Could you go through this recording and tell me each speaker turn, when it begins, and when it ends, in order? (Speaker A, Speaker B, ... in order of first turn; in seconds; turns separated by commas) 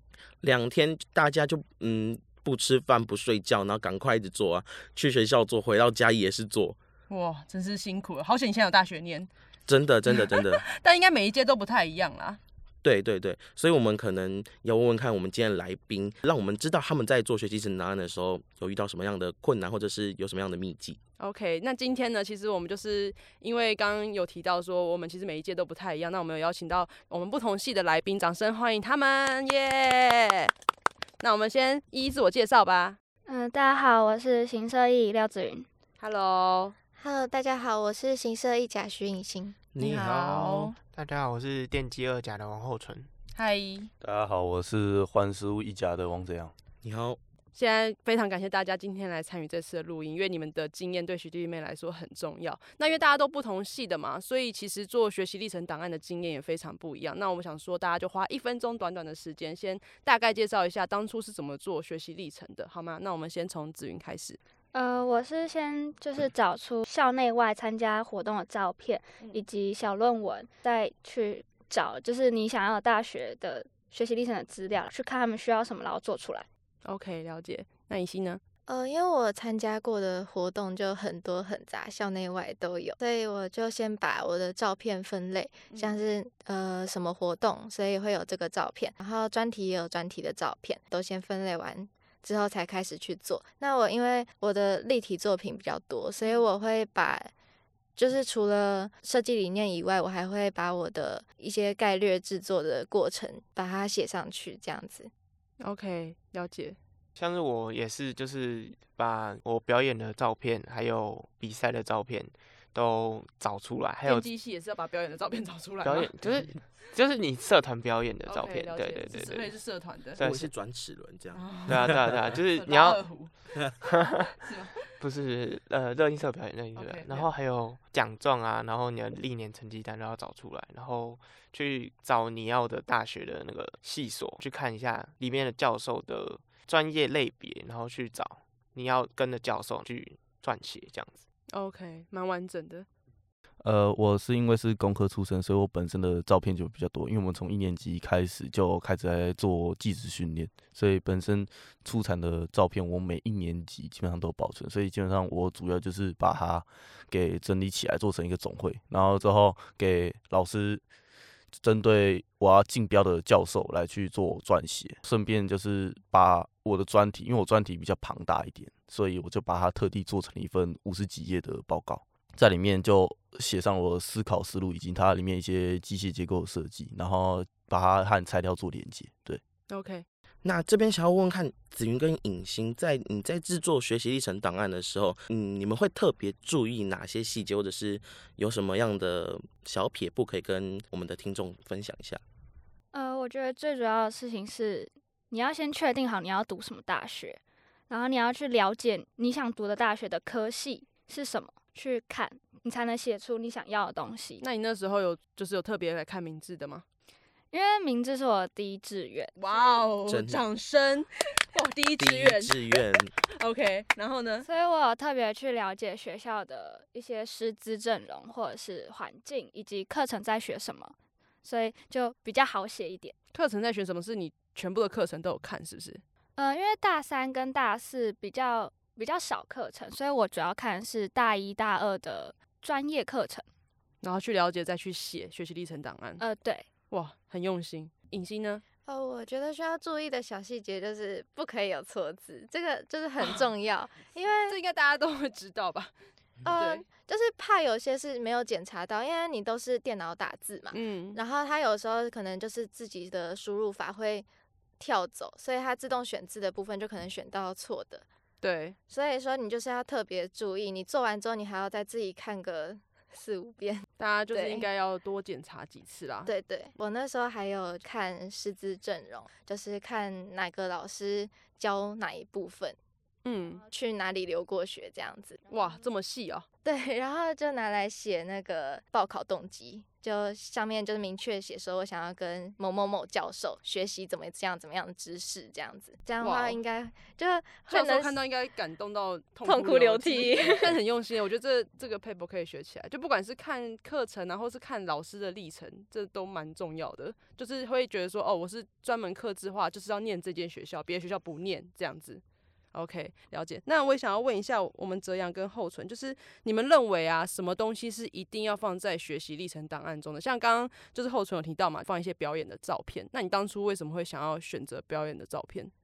Speaker A: 0.4-6.8, Speaker B: 7.1-9.3, Speaker A: 9.7-10.6, Speaker B: 10.1-12.4, Speaker A: 12.8-21.0, Speaker B: 21.2-30.5, Speaker B: 31.2-33.0, Speaker C: 33.3-35.7, Speaker B: 36.0-36.8, Speaker D: 37.0-39.6, Speaker A: 39.7-40.7, Speaker B: 39.8-40.8, Speaker E: 40.9-43.1, Speaker B: 43.3-43.9, Speaker F: 44.0-46.5, Speaker A: 46.8-47.2, Speaker B: 47.5-64.4, Speaker C: 64.7-76.5, Speaker B: 76.8-78.4, Speaker D: 78.7-97.3, Speaker B: 85.7-86.0, Speaker D: 98.0-105.1, Speaker B: 105.6-106.8, Speaker E: 107.2-114.3, Speaker B: 114.0-116.1, Speaker E: 115.8-119.5, Speaker B: 118.2-120.2, Speaker E: 120.2-120.5, Speaker A: 120.2-122.2, Speaker B: 121.3-123.6, Speaker E: 121.7-123.0, Speaker E: 123.8-124.3, Speaker B: 124.3-124.9, Speaker E: 124.9-141.2, Speaker B: 126.8-127.3, Speaker B: 141.5-142.9, Speaker F: 143.6-160.8, Speaker F: 161.5-179.4, Speaker B: 179.7-180.1, Speaker A: 180.4-192.2, Speaker C: 192.9-204.4, Speaker B: 204.4-206.8, Speaker C: 207.5-209.3, Speaker B: 209.3-214.4, Speaker A: 210.1-210.4, Speaker A: 212.0-213.1, Speaker C: 214.4-223.1, Speaker B: 223.3-226.0, Speaker C: 226.3-233.4, Speaker B: 234.0-236.2, Speaker C: 236.2-236.7, Speaker B: 236.9-238.6, Speaker D: 238.8-244.6, Speaker B: 244.5-245.9, Speaker D: 246.4-254.3, Speaker B: 246.5-246.8, Speaker B: 250.7-251.2, Speaker D: 254.8-258.0, Speaker B: 258.4-258.8, Speaker D: 258.9-264.7, Speaker B: 264.0-266.3, Speaker D: 266.2-272.8, Speaker B: 273.2-273.6, Speaker D: 273.6-275.5, Speaker B: 275.5-276.4, Speaker D: 276.6-288.1, Speaker B: 286.2-286.6, Speaker B: 287.7-315.7, Speaker D: 289.4-290.8